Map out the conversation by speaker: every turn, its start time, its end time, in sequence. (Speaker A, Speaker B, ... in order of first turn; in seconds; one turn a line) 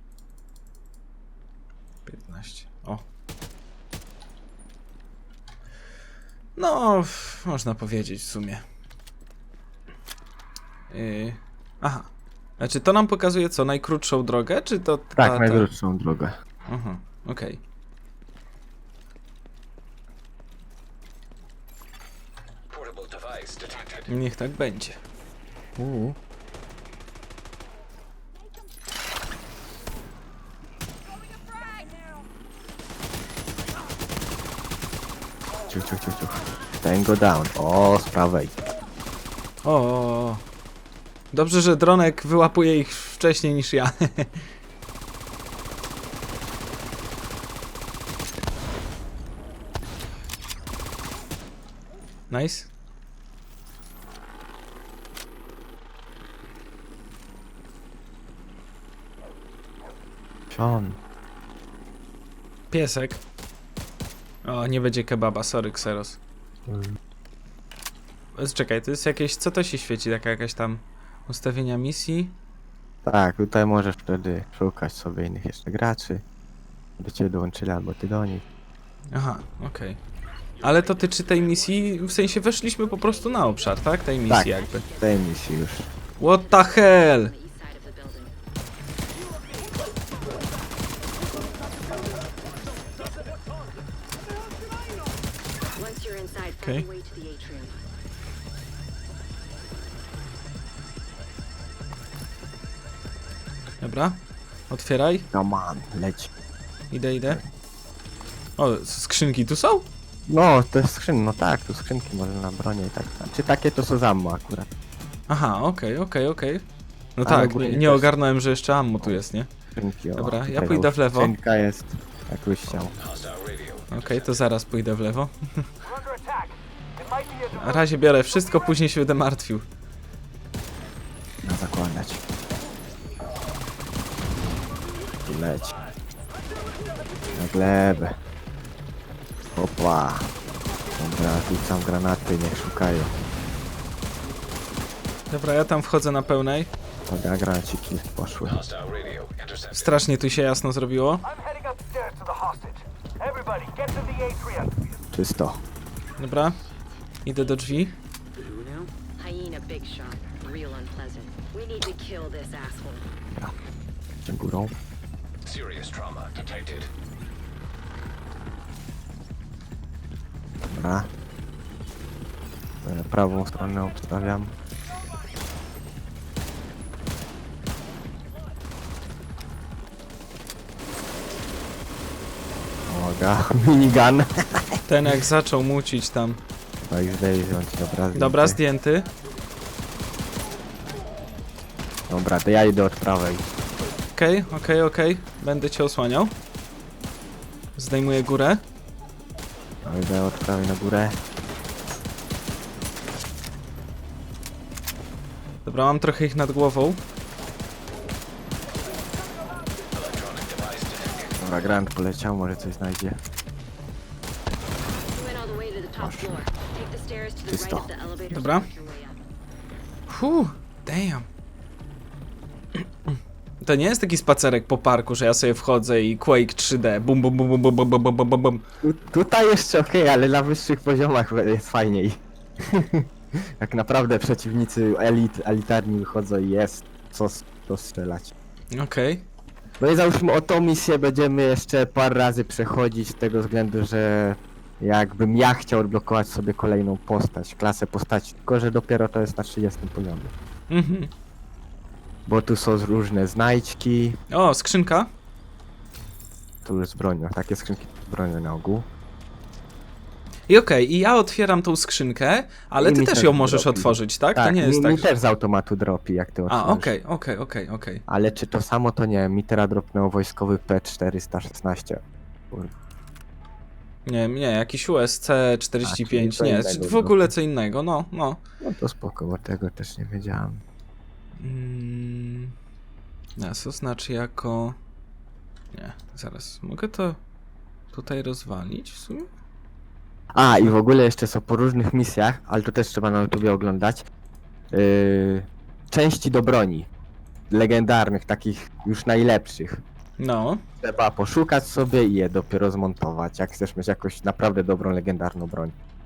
Speaker A: 2.1-3.0
Speaker A: 6.6-8.6
Speaker A: 10.9-12.1
Speaker A: 12.6-15.7
Speaker B: 15.2-16.4
Speaker A: 16.7-17.6
Speaker C: 22.7-24.1
Speaker A: 24.1-25.0
Speaker B: 25.8-26.2
Speaker B: 35.7-38.6
Speaker A: 39.6-40.4
Speaker A: 41.3-44.4
Speaker A: 52.3-52.7
Speaker B: 60.5-61.0
Speaker A: 62.7-63.2
Speaker A: 64.4-66.2
Speaker B: 66.7-67.0
Speaker A: 68.3-72.4
Speaker B: 73.0-76.2
Speaker B: 77.0-78.4
Speaker A: 79.1-80.0
Speaker A: 80.6-84.9
Speaker B: 84.3-85.9
Speaker D: 84.7-85.1
Speaker A: 86.2-87.3
Speaker D: 86.3-88.3
Speaker D: 95.8-97.8
Speaker A: 96.6-96.9
Speaker A: 103.8-105.3
Speaker B: 105.3-106.3
Speaker A: 106.9-107.4
Speaker A: 108.6-109.9
Speaker B: 110.3-114.7
Speaker A: 115.3-116.6
Speaker A: 117.2-119.5
Speaker B: 117.2-118.1
Speaker B: 119.8-122.9
Speaker A: 120.2-121.3
Speaker C: 122.8-124.3
Speaker A: 123.9-125.7
Speaker A: 127.5-129.7
Speaker B: 131.4-132.2
Speaker B: 135.3-135.8
Speaker B: 137.3-138.2
Speaker B: 139.6-140.3
Speaker B: 141.0-143.1
Speaker A: 145.3-146.7
Speaker B: 147.1-148.6
Speaker C: 148.4-150.0
Speaker A: 149.7-151.2
Speaker B: 155.1-155.6
Speaker A: 156.2-156.6
Speaker A: 157.2-158.0
Speaker C: 158.4-158.9
Speaker D: 159.2-163.1
Speaker B: 164.2-164.7
Speaker C: 165.4-166.9
Speaker B: 170.7-171.1
Speaker B: 172.8-174.5
Speaker B: 182.9-184.8
Speaker A: 184.9-186.4
Speaker B: 186.9-188.6
Speaker A: 188.2-189.1
Speaker B: 192.1-193.5
Speaker A: 194.2-196.3
Speaker A: 197.8-198.6
Speaker B: 199.8-201.2
Speaker A: 205.7-207.0
Speaker C: 209.9-211.3
Speaker B: 211.4-213.2
Speaker D: 215.1-219.2
Speaker B: 216.0-216.4
Speaker B: 217.5-217.9
Speaker A: 218.3-218.7
Speaker A: 220.1-221.3
Speaker A: 223.6-228.6
Speaker B: 228.8-238.3
Speaker A: 238.7-239.3
Speaker B: 239.8-250.3
Speaker A: 250.7-251.1
Speaker B: 252.3-254.2
Speaker A: 254.3-255.1
Speaker B: 256.6-258.9
Speaker A: 260.5-265.1
Speaker B: 262.8-266.9
Speaker A: 266.5-268.0
Speaker B: 268.1-272.7
Speaker A: 274.1-278.4
Speaker B: 275.8-277.3
Speaker B: 278.6-280.6
Speaker A: 281.4-282.6
Speaker A: 283.4-284.8
Speaker A: 285.7-287.2
Speaker A: 287.9-289.3
Speaker B: 290.3-294.1
Speaker B: 294.7-296.9
Speaker B: 297.5-299.8
Speaker A: 300.2-300.6
Speaker B: 300.8-305.7